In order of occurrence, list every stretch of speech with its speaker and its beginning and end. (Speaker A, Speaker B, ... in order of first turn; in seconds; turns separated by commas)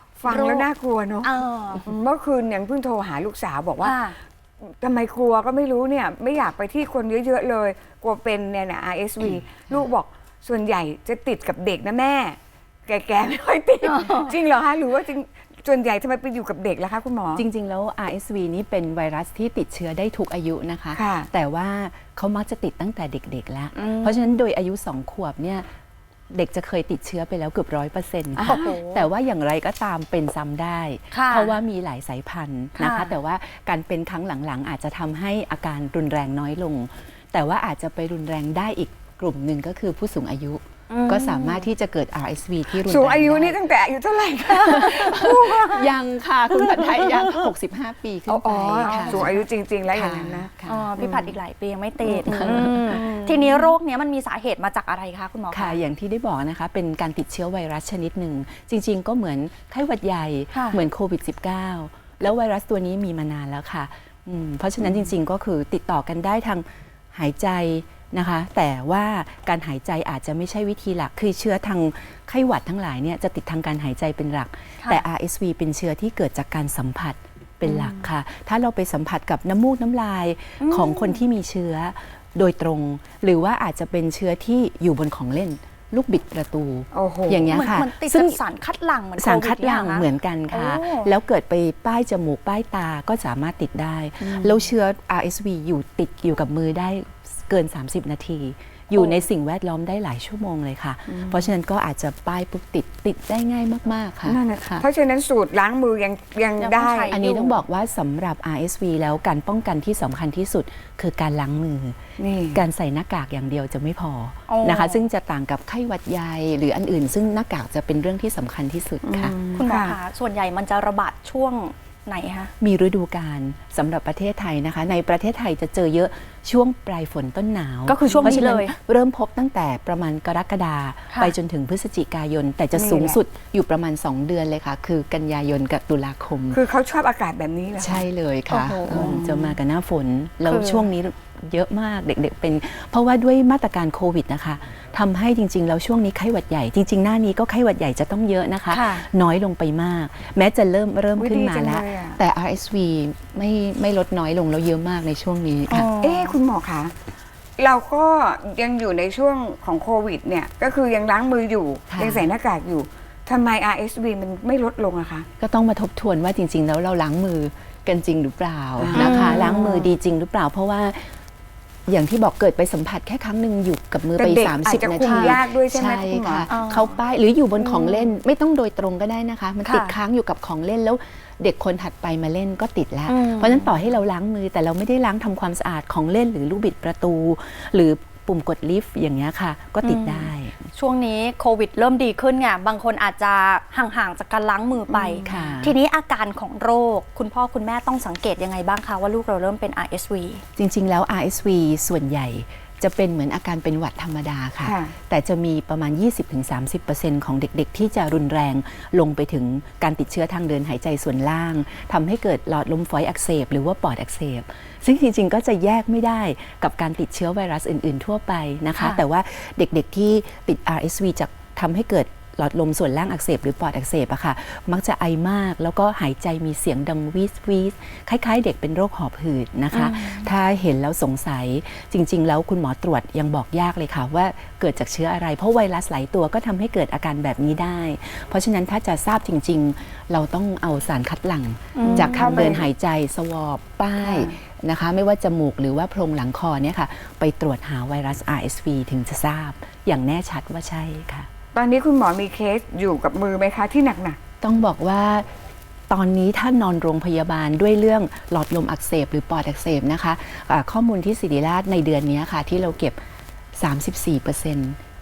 Speaker A: 0.2-4.0, Speaker B: 0.2-0.7, Speaker B: 1.2-1.9, Speaker B: 3.8-4.2, Speaker A: 4.6-17.4, Speaker C: 9.2-9.9, Speaker B: 13.8-14.3, Speaker C: 17.3-25.6, Speaker A: 20.9-21.3, Speaker B: 23.7-24.1, Speaker C: 26.3-43.6, Speaker A: 28.4-28.8, Speaker B: 28.4-29.1, Speaker B: 31.1-31.6, Speaker B: 32.8-33.1, Speaker B: 40.9-41.6, Speaker A: 42.7-45.9, Speaker C: 44.5-49.3, Speaker A: 48.3-51.3, Speaker B: 48.8-49.4, Speaker C: 49.9-50.9, Speaker B: 50.6-55.8, Speaker A: 52.1-53.5, Speaker C: 52.2-53.2, Speaker C: 55.5-88.4, Speaker B: 60.5-60.8, Speaker A: 77.6-78.0, Speaker B: 80.6-81.2, Speaker A: 86.9-87.5, Speaker B: 87.5-91.1, Speaker C: 89.2-104.8, Speaker A: 94.2-94.7, Speaker A: 98.9-99.2, Speaker A: 101.1-101.5, Speaker A: 104.2-107.6, Speaker B: 106.6-107.2, Speaker C: 107.1-112.0, Speaker A: 112.2-112.6, Speaker C: 112.5-119.3, Speaker B: 114.5-115.0, Speaker A: 119.0-120.0, Speaker B: 119.5-122.5, Speaker C: 122.6-136.6, Speaker B: 127.9-128.7, Speaker A: 128.1-128.4, Speaker A: 132.7-133.2, Speaker A: 136.5-138.1, Speaker C: 137.8-155.9, Speaker B: 138.5-139.2, Speaker A: 138.9-139.6, Speaker B: 140.4-140.9, Speaker B: 148.7-149.1, Speaker A: 151.2-152.2, Speaker B: 155.7-156.4, Speaker A: 156.0-156.9, Speaker A: 157.6-165.3, Speaker C: 161.9-162.3, Speaker C: 165.4-171.1, Speaker A: 168.8-169.6, Speaker B: 168.9-169.9, Speaker C: 171.9-190.6, Speaker A: 174.2-176.5, Speaker B: 175.0-175.4, Speaker B: 176.5-176.9, Speaker B: 177.6-178.2, Speaker B: 179.6-179.9, Speaker B: 183.1-183.7, Speaker B: 189.8-200.4, Speaker A: 194.9-195.6, Speaker C: 195.2-195.8, Speaker C: 200.6-251.3, Speaker A: 204.6-204.9, Speaker B: 218.8-219.0, Speaker B: 229.7-230.3, Speaker B: 241.8-242.6, Speaker A: 241.8-242.7, Speaker A: 244.0-244.3, Speaker A: 251.5-254.2, Speaker C: 254.4-255.3, Speaker C: 255.9-263.0, Speaker C: 263.6-264.8